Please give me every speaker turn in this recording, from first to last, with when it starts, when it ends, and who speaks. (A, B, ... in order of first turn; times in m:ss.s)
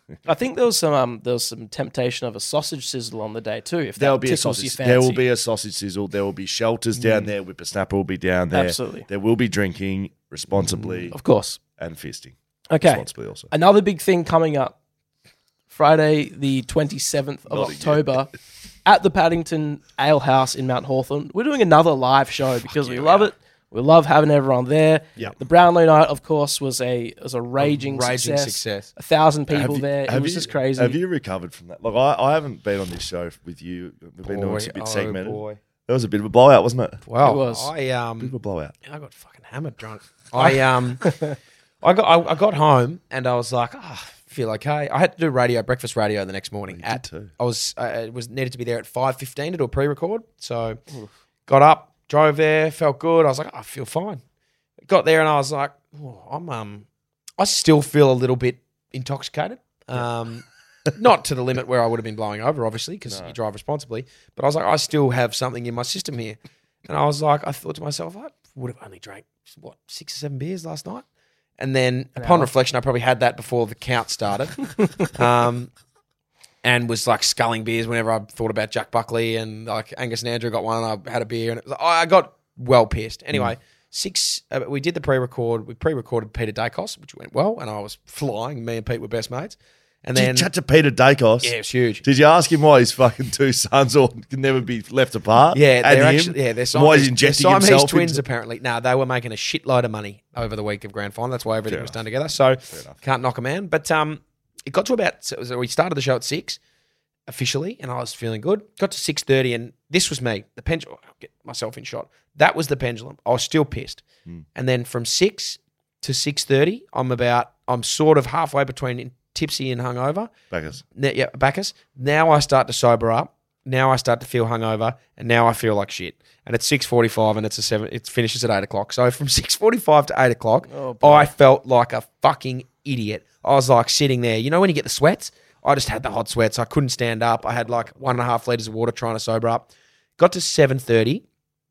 0:00.3-0:05.2 A
0:04.0-0:11.2 B
0:08.5-0:09.1 A
0:11.1-0:11.6 A
0:11.8-0:13.5 B
0:12.7-0:14.8 A
0:15.7-0:18.3 A
0:17.5-0:18.2 B
0:18.8-0:31.0 A
0:22.7-0:23.3 B
0:27.6-0:28.9 C
0:29.5-0:37.0 B
0:34.2-0:35.6 C
0:37.1-0:38.4 C
0:37.2-0:37.7 A
0:38.2-0:38.8 B
0:38.9-0:41.2 C
0:41.0-0:41.4 A
0:41.8-0:50.8 C
0:46.7-0:47.3 B
0:51.5-0:54.2 C
0:54.9-0:56.9 C
0:57.4-1:11.0 C
1:03.1-1:03.3 B
1:11.6-1:15.7 C
1:12.2-1:12.5 A
1:16.6-1:30.5 C
1:30.2-1:38.2 B
1:31.4-1:32.0 C
1:35.5-1:46.6 C
1:41.7-1:42.0 B
1:42.7-1:43.0 B
1:47.3-1:54.0 C
1:54.6-2:00.3 C
2:00.5-2:00.8 B
2:01.0-2:21.2 C
2:10.7-2:11.3 A